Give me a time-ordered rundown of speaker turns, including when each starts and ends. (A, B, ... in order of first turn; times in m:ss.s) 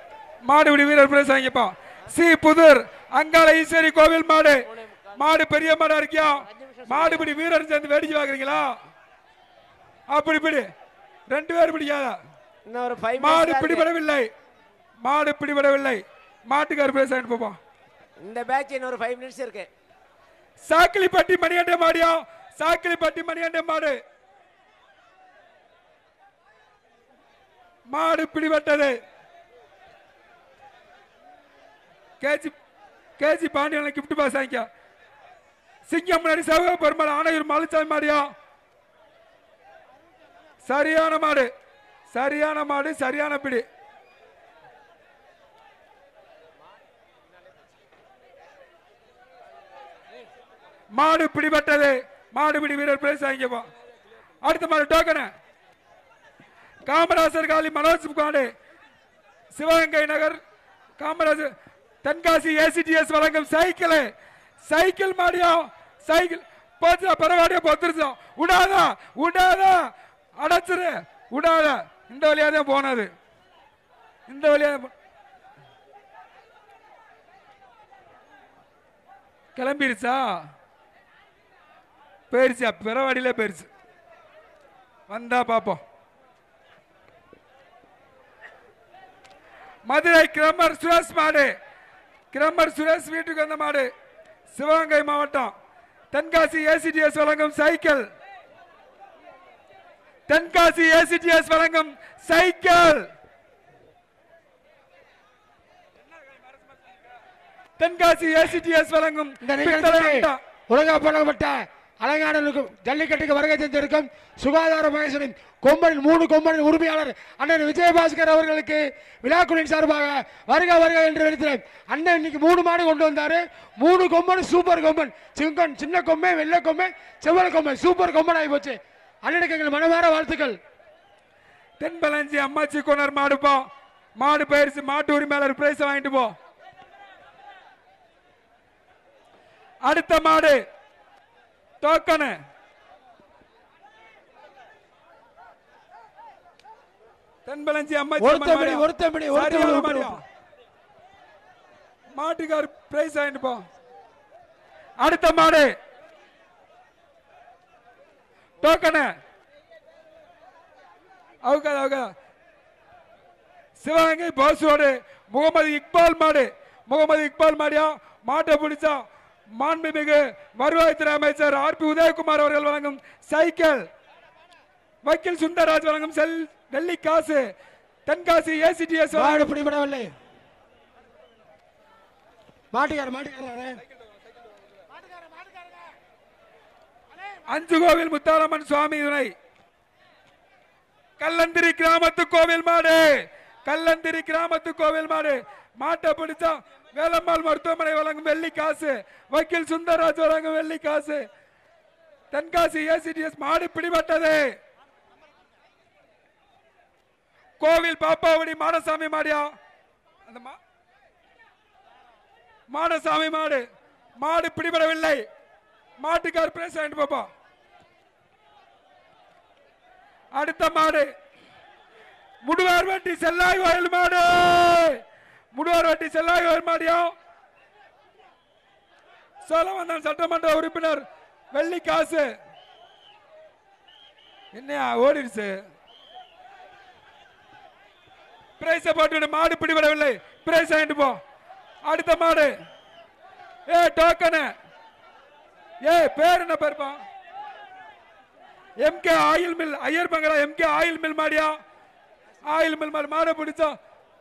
0:00.4-0:04.6 A
0:04.6-0:05.3 B
0:05.2-0:08.7 A
0:06.3-0:07.3 B
0:10.1-0:10.7 A
0:11.3-0:12.2 A
0:12.7-0:13.9 B
0:13.2-0:14.3 A
0:15.0-0:17.6 A
0:18.2-0:19.7 B
0:20.6-0:24.0 A
0:27.9-0:29.0 A
0:32.2-0:32.5 A
0:33.2-0:34.7 A
0:35.9-0:38.3 A
0:40.6-0:41.5 A
0:42.1-0:43.6 A
0:50.9-0:53.7 A
0:54.4-0:55.3 A
0:56.8-0:58.5 A
0:59.5-1:00.4 A
1:01.0-1:01.5 A
1:02.0-1:04.1 A
1:04.6-1:13.1 A
1:14.3-1:14.9 A
1:19.6-1:20.4 A
1:22.3-1:23.7 A
1:25.1-1:25.8 A
1:29.9-1:31.5 A
1:32.3-1:33.9 A
1:34.5-1:35.5 A
1:36.1-1:38.1 A
1:40.3-1:43.0 A
1:47.8-1:50.4 A
1:49.4-2:10.6 C
2:11.8-2:13.6 A
2:14.2-2:16.3 A
2:19.8-2:20.6 A
2:21.8-2:22.4 A
2:27.5-2:30.2 A
2:28.2-2:30.2 C
2:32.1-2:33.6 A
2:35.0-2:35.7 A
2:38.6-2:39.1 A
2:41.4-2:42.1 A
2:43.8-2:49.0 A
2:49.5-2:53.8 A
2:55.0-2:57.5 A
2:58.0-2:59.5 A
2:59.1-3:00.1 C
3:02.7-3:03.8 C
3:07.5-3:09.3 A
3:11.2-3:21.3 A
3:22.3-3:24.6 A
3:27.6-3:29.5 A
3:30.3-3:30.6 A
3:32.7-3:33.7 A
3:34.2-3:35.2 A
3:36.0-3:37.3 A
3:40.3-3:41.1 A
3:42.4-3:45.0 A
3:45.5-3:47.1 A
3:49.4-3:52.3 A
3:54.5-3:55.6 A
3:58.6-4:01.2 A
4:01.8-4:02.5 A
4:03.7-4:04.5 A
4:05.8-4:07.0 A
4:08.8-4:11.6 A
4:12.4-4:13.7 A